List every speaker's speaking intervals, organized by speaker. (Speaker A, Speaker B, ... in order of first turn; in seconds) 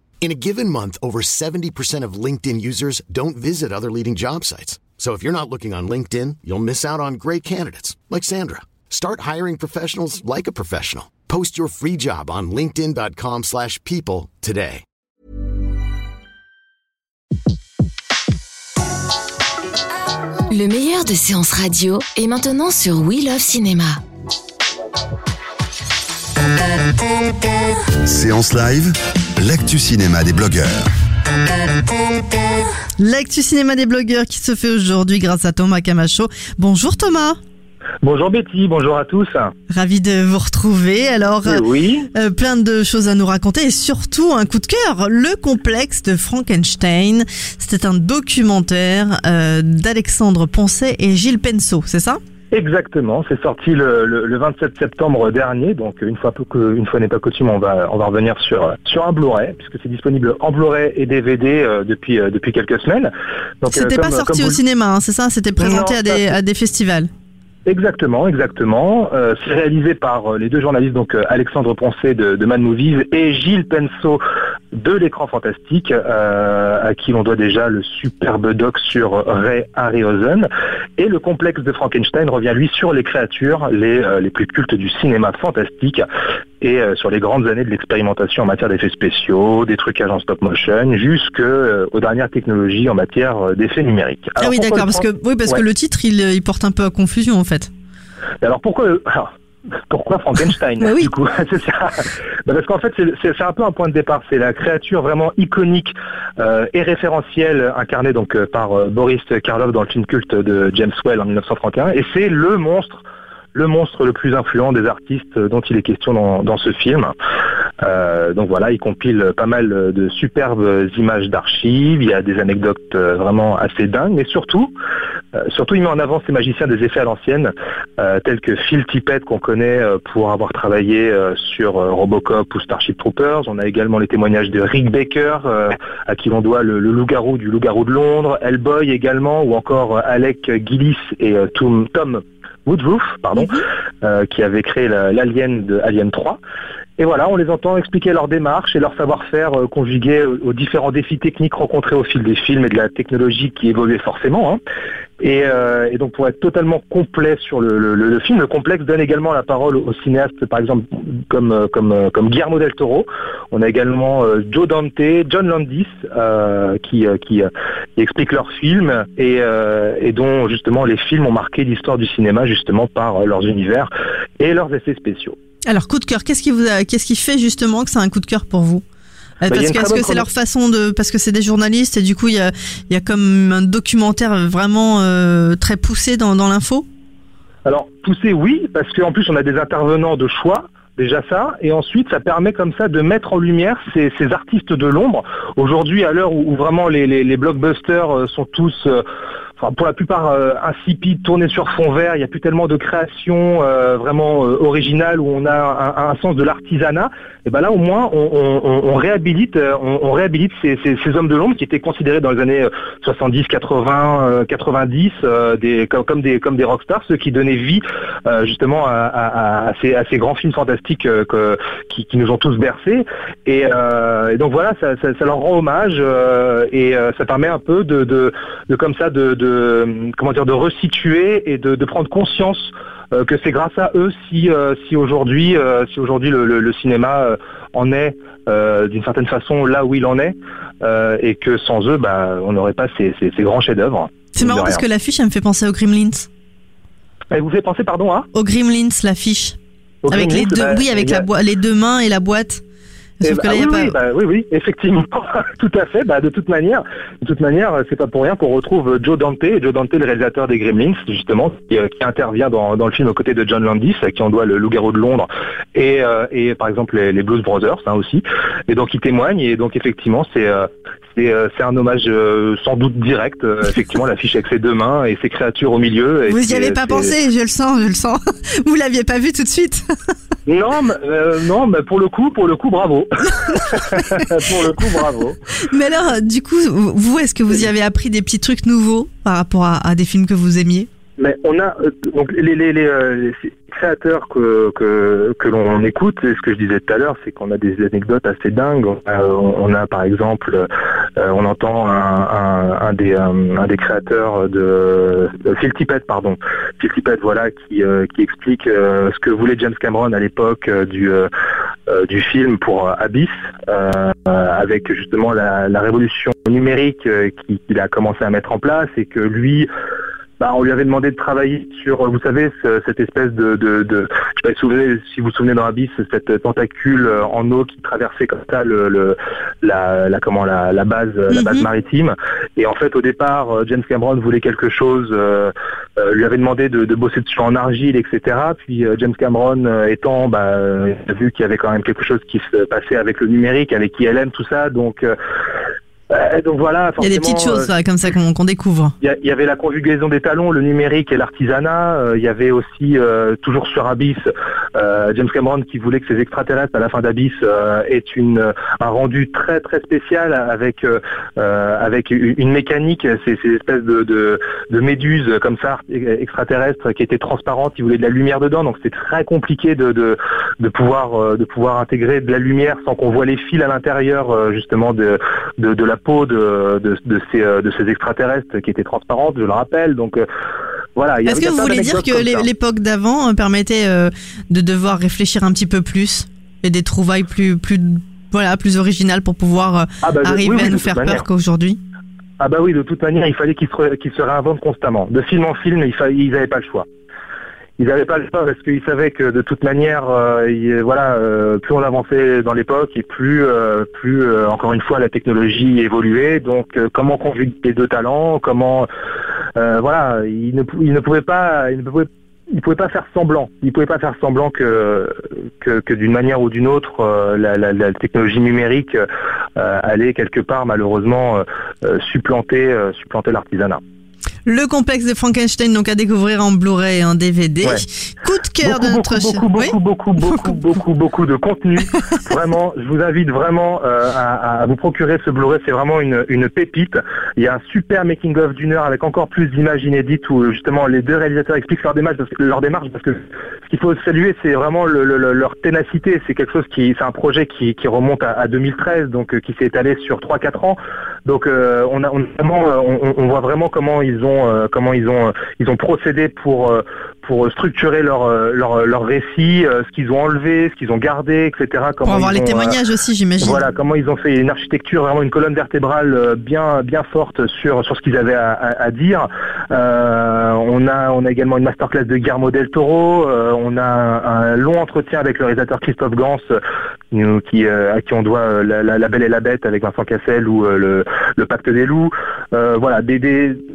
Speaker A: 0.2-14.8
Speaker B: 20.5-24.0
Speaker C: 28.0-30.9
Speaker D: 33.0-37.4, 39.7-52.2, 63.6-67.1, 94.4-97.7, 100.8-101.1, 175.7-178.8, 179.4-186.9, 244.3-246.3, 248.3-249.6, 250.1-252.6, 253.2-254.0, 276.3-279.8, 283.4-284.2, 285.6-290.9, 331.3-331.6, 347.0-348.9, 381.2-391.8, 424.4-430.6, 431.9-432.2, 462.0-463.6
Speaker E: 38.0-39.5, 41.4-42.1, 52.5-63.1, 63.6-64.6, 65.6-66.3, 67.7-74.2, 74.7-86.0, 86.6-95.6, 98.4-99.3, 99.9-113.0, 113.5-117.1, 117.8-124.7, 125.3-146.4, 147.0-154.6, 155.2-175.4, 179.4-180.3, 187.6-199.0, 199.6-244.8, 247.3-248.3, 250.0-251.3, 253.2-277.2, 280.4-285.4, 291.2-311.3, 311.9-319.7, 320.4-345.1, 346.1-347.7, 349.0-354.2, 354.7-380.2, 380.9-382.5, 390.0-391.2, 392.4-396.9, 397.8-408.9, 409.6-419.0, 419.6-423.8, 428.6-462.8, 463.4-476.6, 477.1-483.6